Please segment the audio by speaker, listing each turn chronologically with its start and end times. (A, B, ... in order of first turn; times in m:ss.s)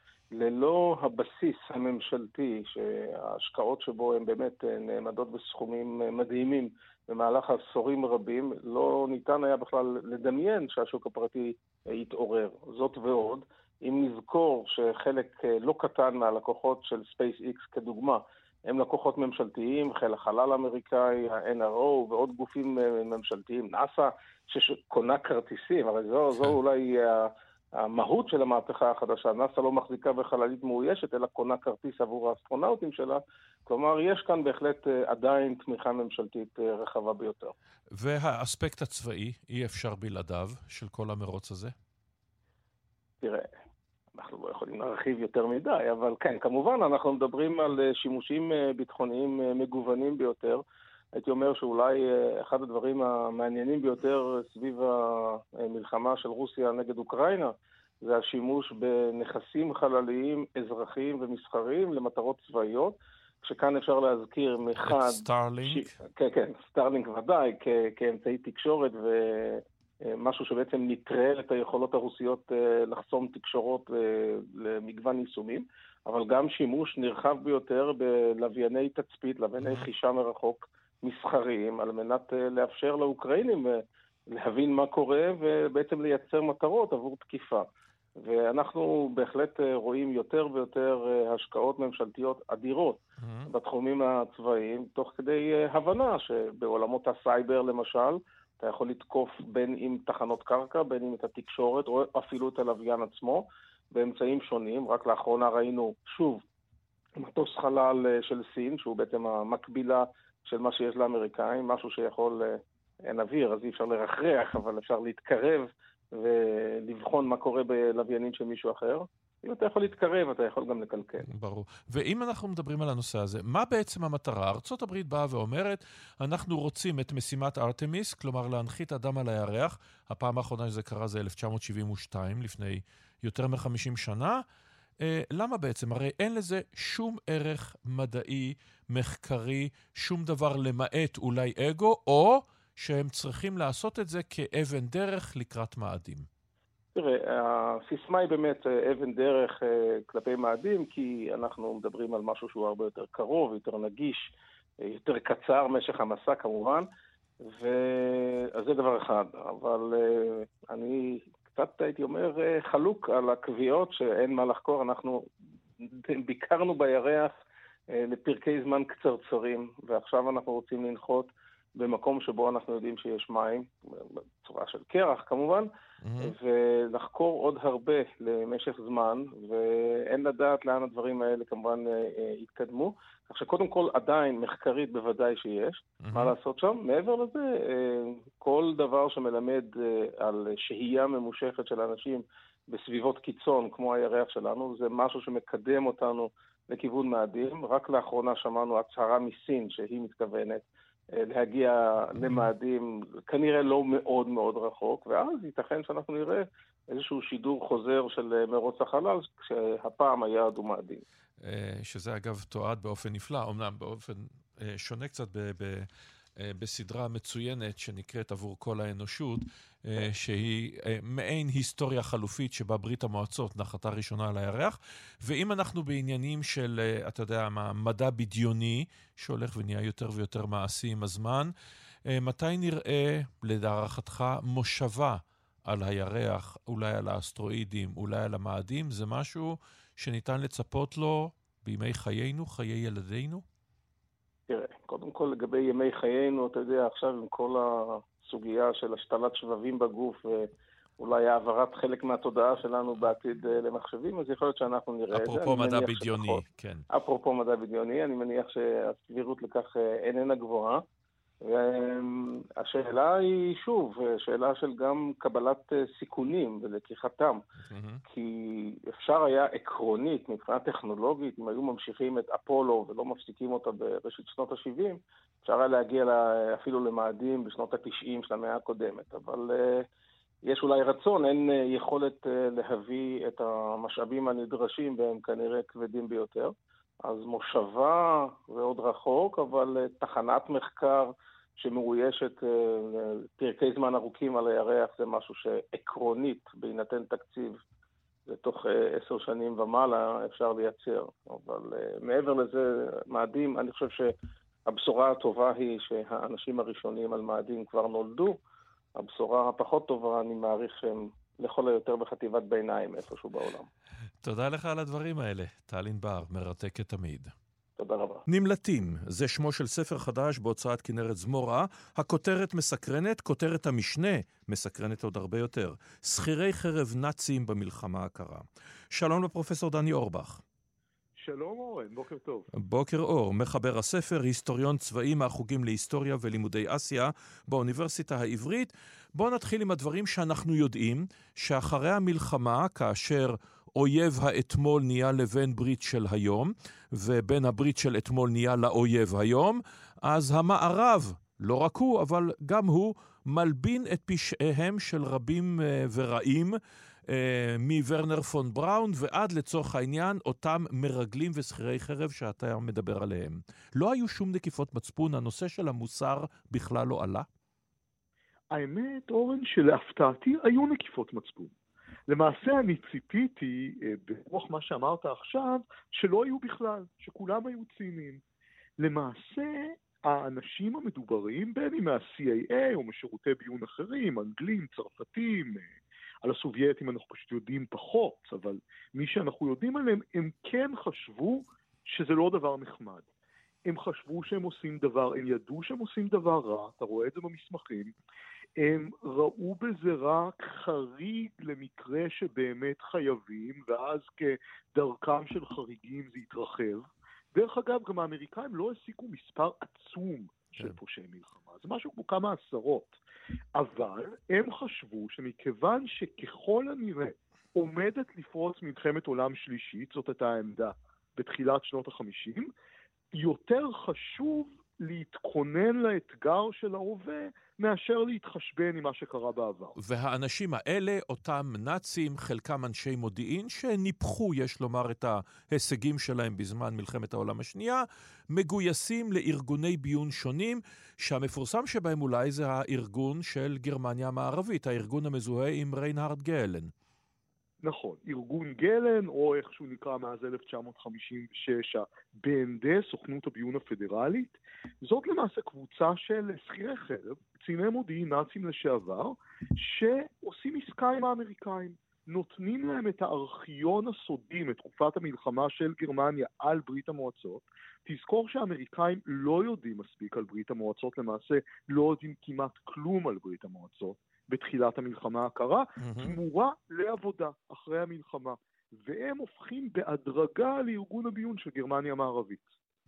0:00.3-0:37.5 A
0:37.9-0:41.7 B
0:43.2-0:43.5 A
0:44.2-0:50.6 A
0:51.1-1:27.6 A
1:04.8-1:05.9 B
1:28.2-1:46.4 A
1:33.2-1:33.5 B
1:47.2-2:01.2 A
2:01.2-2:14.4 B
2:15.0-2:26.3 B
2:26.9-2:36.9 A
2:37.4-2:45.3 A
2:45.8-2:47.3 A
2:47.9-2:55.7 A
2:56.0-2:56.3 B
2:56.2-3:31.0 A
3:06.0-3:06.3 B
3:22.2-3:22.5 B
3:31.4-3:51.5 B
3:52.1-4:03.4 B
4:04.5-4:10.5 A
4:11.0-4:20.8 A
4:15.1-4:16.8 B
4:21.4-4:27.4 A
4:27.7-4:28.0 B
4:28.1-4:39.8 A
4:40.4-4:46.5 A
4:47.0-4:57.6 A
4:58.3-5:04.1 A
5:04.7-5:08.4 A
5:09.0-5:13.7 A
5:14.2-5:17.3 B
5:17.8-5:18.2 A
5:18.3-5:30.4 B
5:31.2-5:32.5 C
5:32.6-6:07.3 B
6:08.5-6:11.5 C
6:12.1-6:18.2 C
6:18.8-6:25.7 C
6:26.2-6:33.0 C
6:33.6-6:37.9 C
6:38.6-6:52.9 C
6:53.5-7:02.5 C
7:03.1-7:09.7 C
7:09.8-7:26.7 B
7:27.6-8:02.5 C
7:55.8-7:56.2 B